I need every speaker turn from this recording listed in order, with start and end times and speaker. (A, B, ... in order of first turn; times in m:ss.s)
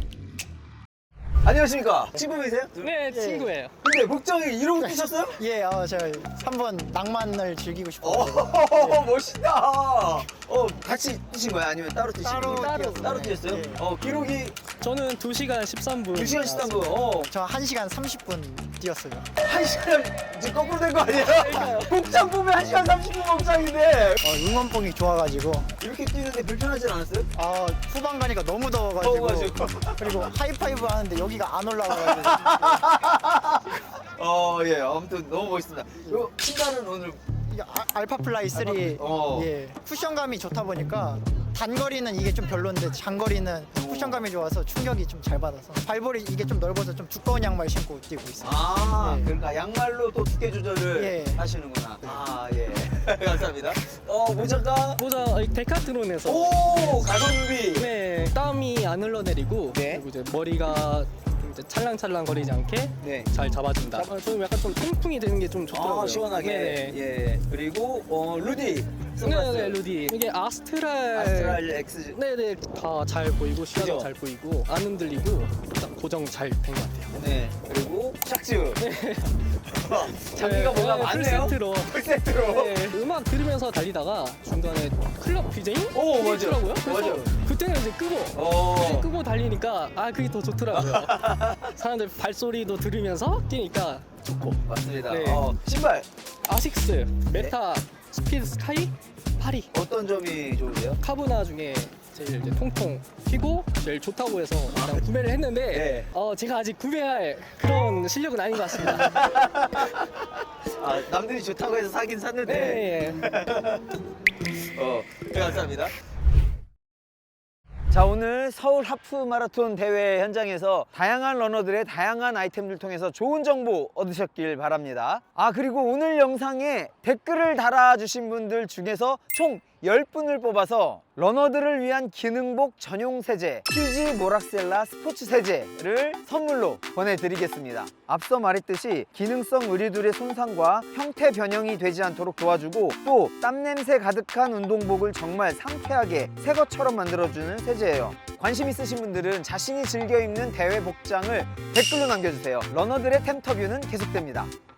0:01.4-0:03.0 A
0:02.8-0:03.7 B
0:03.1-0:03.5 C
0:03.8-0:05.4 A
0:04.8-0:09.1 C
0:08.0-0:14.6 A
0:12.2-0:13.8 C
0:12.5-0:13.0 B
0:14.8-0:17.0 B
0:16.1-0:17.3 A
0:17.1-0:19.3 C
0:19.4-0:24.3 A
0:21.2-0:22.0 B
0:24.2-0:25.7 C
0:25.8-0:27.3 A
0:27.4-0:32.9 C
0:29.0-0:30.3 A
0:31.9-0:37.2 A
0:37.5-0:49.3 C
0:38.5-0:39.5 A
0:43.7-0:44.2 A
0:48.4-0:55.0 A
0:50.9-0:51.4 C
0:55.0-0:57.1 B
0:56.2-0:57.9 A
0:57.7-1:07.0 B
0:59.7-1:00.1 A
1:03.0-1:03.4 A
1:03.9-1:04.2 A
1:05.7-1:09.8 A
1:09.2-1:17.2 B
1:11.1-1:12.2 A
1:13.7-1:14.1 A
1:17.1-1:18.8 A
1:18.8-1:19.4 B
1:19.6-1:23.0 A
1:20.2-1:35.6 B
1:25.9-1:27.4 A
1:28.3-1:29.1 A
1:30.7-1:31.8 A
1:34.6-1:36.1 A
1:36.5-1:39.7 B
1:37.3-1:37.6 A
1:39.7-1:41.0 A
1:41.0-1:49.2 B
1:44.7-1:45.0 A
1:45.7-1:46.1 A
1:48.6-1:54.0 A
1:52.5-1:53.3 B
1:54.5-1:55.9 A
1:57.9-2:34.5 A